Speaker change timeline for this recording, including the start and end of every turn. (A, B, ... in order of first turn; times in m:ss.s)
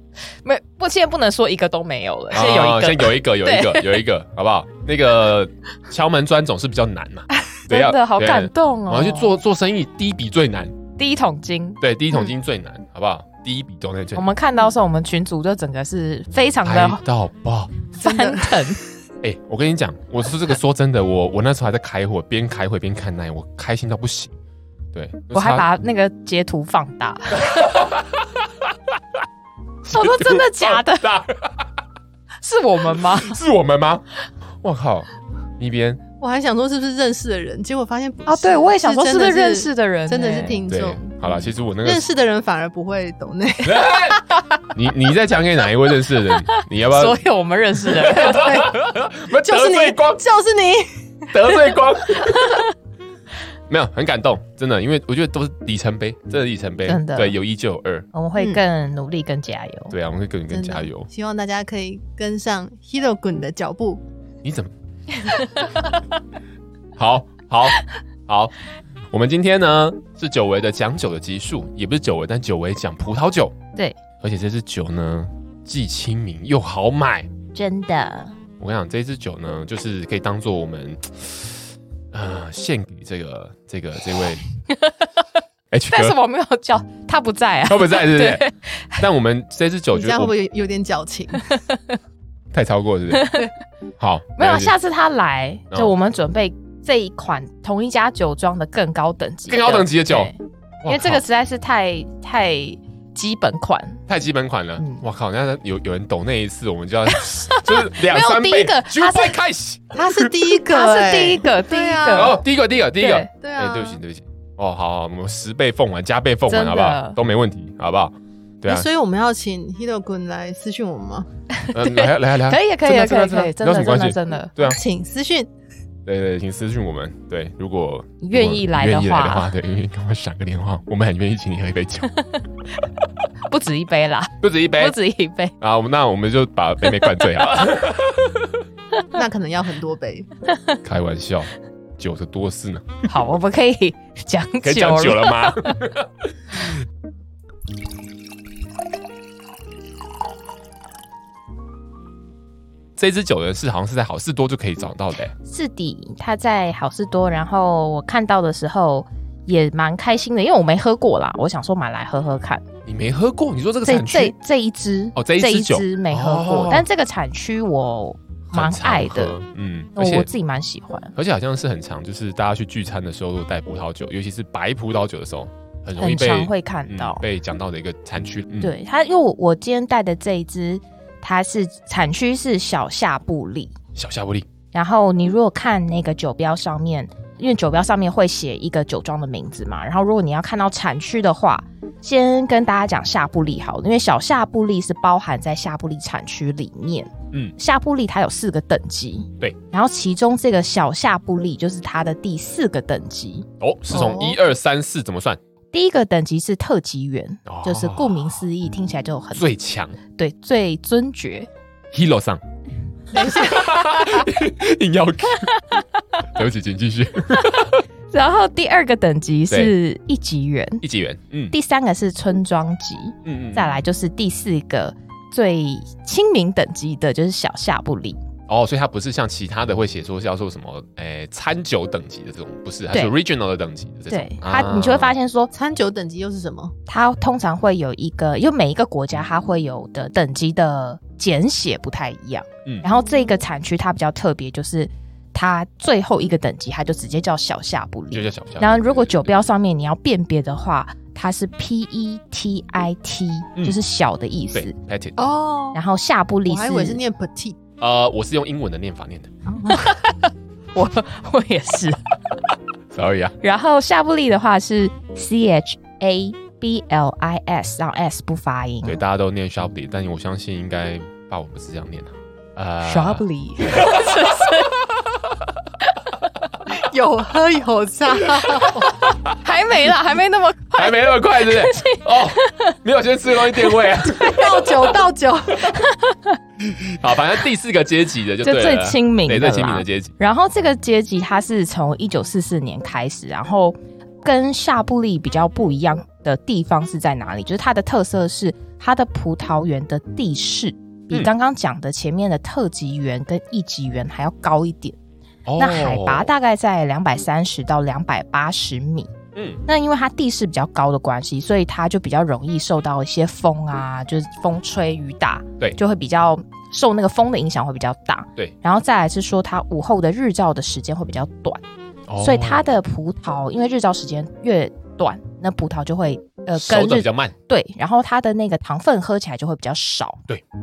0:00.4-0:04.0 A
0:02.3-0:10.7 B
0:07.7-0:09.3 A
0:11.0-0:11.8 A
0:11.8-0:14.2 B
0:14.1-0:17.0 A
0:16.6-0:17.8 B
0:17.9-0:18.8 A
0:18.0-0:18.8 C
0:19.2-0:24.3 B
0:24.9-0:25.7 B
0:25.3-0:27.8 A
0:27.3-0:28.7 B
0:29.8-0:31.7 B
0:29.9-0:31.0 A
0:32.4-0:33.4 A
0:33.0-0:34.0 B
0:34.6-0:35.1 B
0:35.6-0:36.0 B
0:36.2-0:41.2 C
0:38.2-0:40.6 A
0:40.7-0:42.1 B
0:41.8-0:44.1 C
0:43.6-0:44.2 B
0:44.7-0:47.2 B
0:46.5-0:48.5 A
0:47.9-0:50.2 B
0:48.2-0:48.8 C
0:49.4-0:51.3 C
0:51.3-0:52.6 B
0:52.3-0:52.6 A
0:53.7-0:58.1 B
0:56.8-0:57.4 A
0:58.1-0:59.9 A
0:59.9-1:01.1 B
1:00.5-1:04.0 C
1:04.4-1:04.7 B
1:07.0-1:08.5 B
1:09.1-1:13.6 B
1:14.2-1:17.3 B
1:17.5-1:18.3 A
1:18.6-1:24.4 B
1:25.7-1:26.2 B
1:25.9-1:29.0 A
1:27.7-1:28.4 B
1:29.0-1:30.3 B
1:29.9-1:31.6 C
1:32.5-1:33.4 B
1:33.1-1:33.5 A
1:34.0-1:34.7 B
1:34.4-1:44.0 A
1:39.5-1:40.3 B
1:40.8-1:41.2 B
1:44.1-1:50.3 B
1:47.1-1:49.4 A
1:49.9-1:52.4 C
1:50.7-1:52.4 A
1:52.1-1:58.9 B
1:53.0-1:53.3 A
1:53.4-1:54.0 C
1:56.5-1:57.2 A
1:58.6-2:01.3 C
2:01.6-2:04.5 A
2:01.7-2:04.8 B
2:04.6-2:05.5 C
2:06.0-2:12.1 B
2:08.2-2:09.5 A
2:13.5-2:15.5 A
2:14.4-2:15.0 B
2:15.6-2:18.5 B
2:19.1-2:20.3 C
2:20.8-2:23.0 B
2:23.1-2:25.8 A
2:24.6-2:26.7 B
2:33.0-2:35.3 B
2:35.4-2:42.6 A
2:42.8-2:44.3 B
2:43.8-2:49.4 A
2:45.2-2:46.9 B
2:48.5-2:50.3 B
2:50.0-2:51.1 A
2:51.1-2:58.7 B
2:56.0-2:57.2 A
2:58.6-3:03.7 A
3:03.9-3:04.5 B
3:04.7-3:24.3 A
3:23.6-3:25.4 B
3:24.0-3:24.4 C
3:25.7-3:29.4 A
3:27.4-3:28.4 B
3:29.3-3:30.0 B
3:30.2-3:31.5 A
3:31.9-3:32.4 B
3:33.1-3:33.8 C
3:33.3-3:35.5 B
3:35.4-3:35.8 A
3:36.2-3:37.8 B
3:38.1-3:40.8 A
3:40.8-3:41.5 B
3:41.5-3:48.2 A
3:43.2-3:43.8 B
3:48.5-3:55.1 B
3:54.1-3:55.5 A
3:55.5-3:56.7 C
3:56.9-4:14.7 A
4:08.1-4:09.4 B
4:14.5-4:15.2 B
4:15.2-4:15.8 C
4:15.7-4:17.0 A
4:16.4-4:17.6 C
4:17.8-4:19.3 B
4:19.6-4:20.2 A
4:20.7-4:22.0 A
4:22.9-4:23.4 B
4:23.4-4:29.0 A
4:28.8-4:35.5 B
4:32.8-4:34.7 A
4:36.7-4:38.9 C
4:39.3-4:42.7 A
4:40.7-4:44.7 B
4:43.6-4:44.5 A
4:44.2-4:45.7 C
4:45.7-4:46.4 A
4:46.8-4:50.1 B
4:48.4-5:05.0 A
5:05.4-5:06.3 B
5:05.6-5:09.1 A
5:09.3-5:09.6 B
5:09.6-5:21.6 A
5:22.1-5:22.6 B
5:22.2-5:30.2 A
5:26.5-5:27.3 B